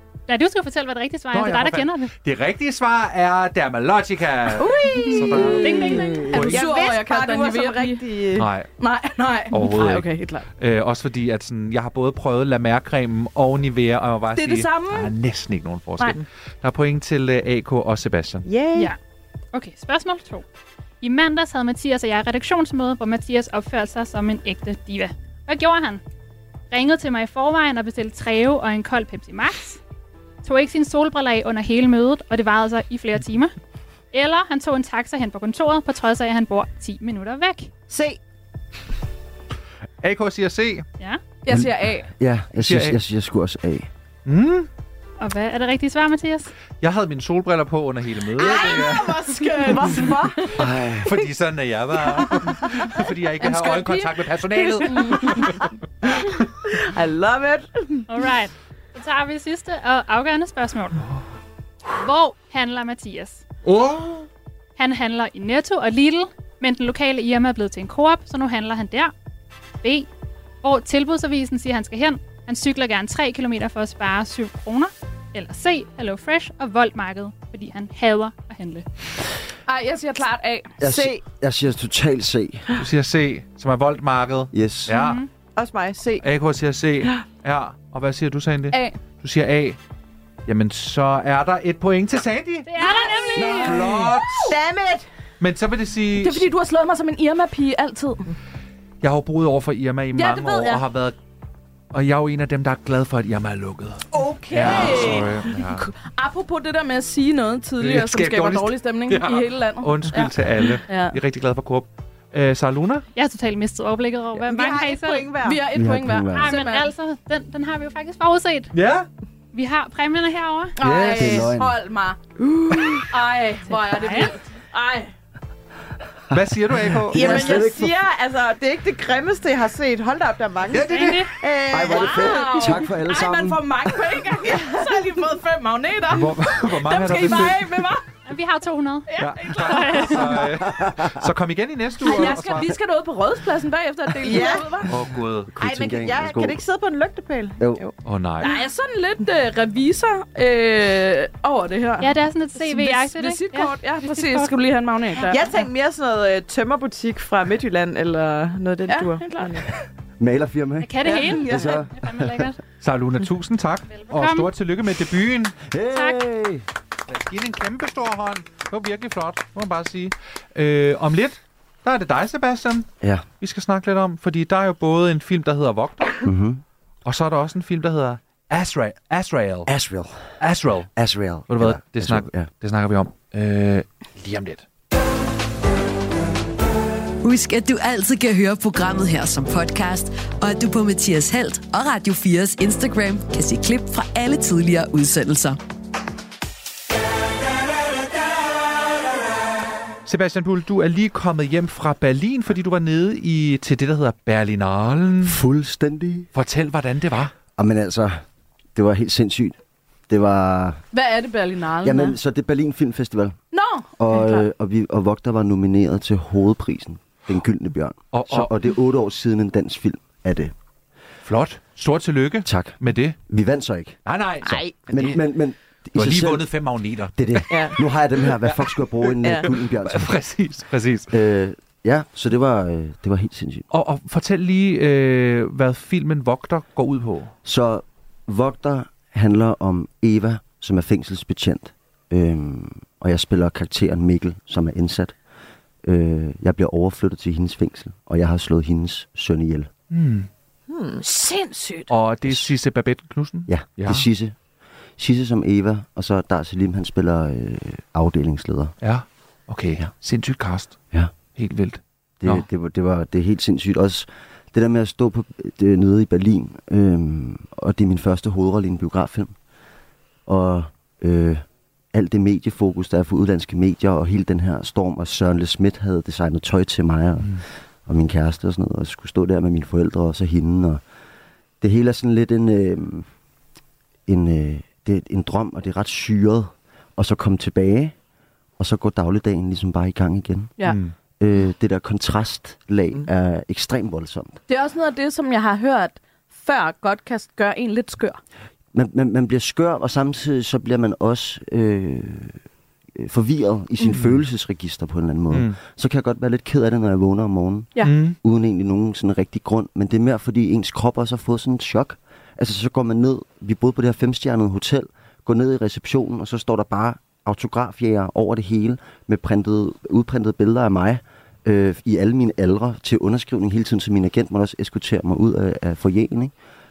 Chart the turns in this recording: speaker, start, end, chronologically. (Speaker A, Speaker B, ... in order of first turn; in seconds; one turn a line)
Speaker A: 0.3-2.1
Speaker B: 1.3-6.7
Speaker C: 4.6-8.0
Speaker D: 4.6-8.5
Speaker A: 5.6-6.2
Speaker B: 8.3-8.7
Speaker C: 8.8-10.5
Speaker B: 9.5-18.5
Speaker C: 14.3-15.1
Speaker D: 18.4-18.9
Speaker A: 19.5-20.4
Speaker A: 21.0-26.0
Speaker A: 26.7-29.8
Speaker A: 30.4-33.5
Speaker A: 34.1-37.7
Speaker D: 37.9-38.2
Speaker B: 40.0-40.9
Speaker C: 41.4-42.1
Speaker E: 41.5-43.9
Speaker B: 42.6-43.0
Speaker B: 44.2-44.7
Speaker A: 45.2-46.5
Speaker B: 46.8-49.2
Speaker D: 48.3-50.6
Speaker C: 48.4-50.1
Speaker E: 50.6-51.1
Speaker B: 51.0-55.5
Speaker C: 52.2-52.8
Speaker C: 53.4-55.6
Speaker D: 56.7-58.0
Speaker A: 58.1-61.0
Speaker A: 61.9-63.4
Speaker B: 63.6-64.1
Speaker A: 64.8-69.1
Speaker A: 70.6-78.8
Speaker C: 79.7-80.9
Speaker E: 80.8-82.7
Speaker D: 80.8-81.2
Speaker B: 82.8-85.2
Speaker E: 84.5-84.9
Speaker A: 84.9-85.3
Speaker D: 85.5-86.3
Speaker B: 86.2-89.8
Speaker C: 88.7-89.0
Speaker B: 90.5-92.7
Speaker A: 92.7-93.8
Speaker E: 93.3-94.1
Speaker B: 93.5-94.5
Speaker D: 94.3-95.1
Speaker B: 95.4-96.5
Speaker C: 96.2-98.3
Speaker B: 99.0-101.1
Speaker C: 100.1-100.8
Speaker B: 101.9-105.9
Speaker C: 104.1-111.2
Speaker D: 104.4-105.2
Speaker B: 107.8-113.0
Speaker A: 113.1-115.3
Speaker D: 114.4-115.6
Speaker C: 115.4-116.9
Speaker E: 115.7-116.5
Speaker A: 116.3-118.7
Speaker B: 118.7-119.1
Speaker A: 119.5-120.8
Speaker C: 120.8-125.1
Speaker E: 120.8-121.7
Speaker A: 123.8-124.3
Speaker B: 126.3-127.4
Speaker E: 126.3-127.9
Speaker D: 127.1-132.7
Speaker C: 127.2-127.7
Speaker B: 130.7-131.2
Speaker A: 130.8-131.3
Speaker E: 131.7-133.6
Speaker C: 131.8-138.0
Speaker D: 134.3-135.0
Speaker B: 136.1-137.7
Speaker A: 138.2-139.1
Speaker C: 139.1-140.4
Speaker B: 139.2-142.8
Speaker A: 139.7-140.2
Speaker E: 140.6-141.2
Speaker C: 142.0-144.9
Speaker D: 144.2-144.8
Speaker B: 144.9-145.5
Speaker E: 145.5-146.6
Speaker D: 145.6-147.9
Speaker B: 148.0-148.5
Speaker C: 148.4-155.5
Speaker A: 152.0-154.5
Speaker D: 155.2-159.7
Speaker C: 158.9-159.7
Speaker E: 160.2-162.5
Speaker A: 160.8-162.6
Speaker D: 161.0-161.8
Speaker B: 162.7-165.6
Speaker A: 163.9-164.5
Speaker E: 165.6-166.6
Speaker A: 165.9-166.2
Speaker B: 167.1-172.9
Speaker E: 173.0-173.3
Speaker B: 173.4-176.2
Speaker E: 176.2-176.6
Speaker B: 177.0-179.7
Speaker E: 179.7-180.3
Speaker B: 180.4-180.9
Speaker E: 180.9-182.5
Speaker B: 181.5-184.6
Speaker F: 187.2-195.6
Speaker B: 200.1-205.4
Speaker E: 205.2-206.3
Speaker B: 206.3-207.3
Speaker E: 207.6-208.2
Speaker E: 208.7-209.6
Speaker E: 210.1-210.8
Speaker C: 210.9-212.2
Speaker E: 211.8-213.4
Speaker C: 213.5-214.4
Speaker E: 214.0-220.5
Speaker B: 218.1-218.5
Speaker B: 221.2-223.2
Speaker E: 222.4-224.0
Speaker B: 224.1-225.2
Speaker D: 224.4-224.9
Speaker E: 224.9-226.5
Speaker B: 225.9-227.7
Speaker E: 227.1-230.1
Speaker D: 227.5-227.8
Speaker B: 229.1-231.1
Speaker D: 229.2-229.5
Speaker E: 231.1-233.7
Speaker B: 233.7-237.3
Speaker E: 237.4-245.2
Speaker E: 245.8-249.7
Speaker B: 249.9-250.3
Speaker D: 250.7-251.2
Speaker C: 251.2-251.8
Speaker B: 251.9-254.1
Speaker E: 253.5-254.3
Speaker E: 255.0-258.7
Speaker B: 258.8-262.4
Speaker E: 262.2-269.3
Speaker E: 270.3-280.8
Speaker E: 281.6-283.1
Speaker E: 284.1-287.9
Speaker E: 288.6-290.6
Speaker B: 290.6-290.9
Speaker E: 291.2-294.4
Speaker C: 294.5-298.2
Speaker E: 298.7-302.4
Speaker E: 303.0-326.3
Speaker B: 305.3-305.6
Speaker B: 307.8-308.1